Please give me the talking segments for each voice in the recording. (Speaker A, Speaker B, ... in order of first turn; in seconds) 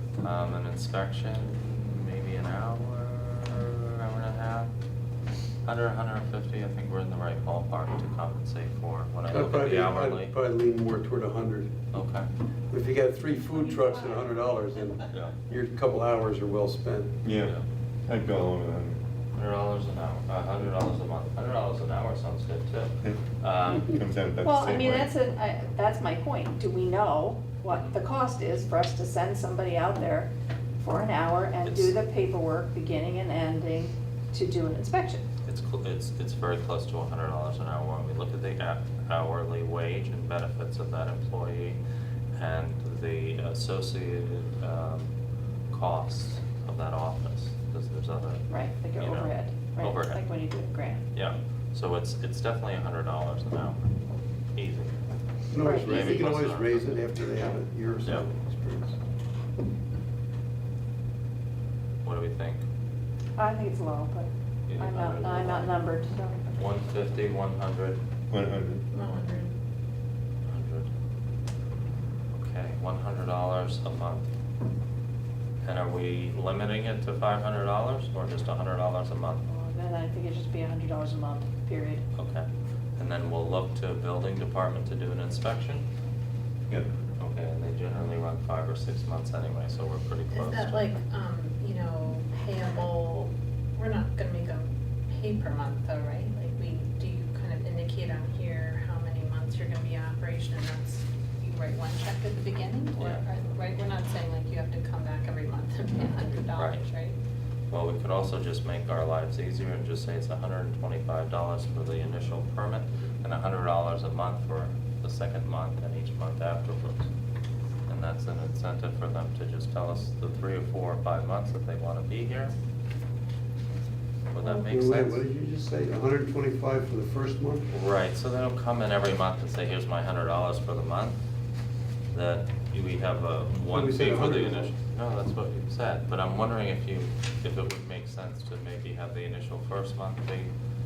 Speaker A: 0.2-4.7, 5.6-10.3, 11.9-12.3, 19.3-23.9, 27.7-28.0, 31.6-31.9, 35.4-41.8, 42.3-45.1, 45.7-50.2, 51.1-53.8, 54.5-55.0, 55.6-56.9, 62.0-62.6, 64.7-65.8, 66.5-68.0, 70.5-70.9, 72.3-74.3, 75.6-79.4, 82.1-85.9, 87.2-90.9, 106.5-106.8, 107.7-117.1, 117.9-122.5, 124.3-125.2, 127.7-131.2, 132.1-140.5
Speaker B: 9.3-11.7, 12.7-17.1, 55.5-58.9, 124.4-127.7, 133.7-134.7
Speaker C: 17.2-17.6, 18.1-19.0, 23.7-25.1, 68.3-68.8
Speaker D: 24.4-35.2, 48.5-51.0, 55.6-56.3, 63.4-66.7, 79.5-82.0
Speaker E: 68.9-69.5, 90.3-107.2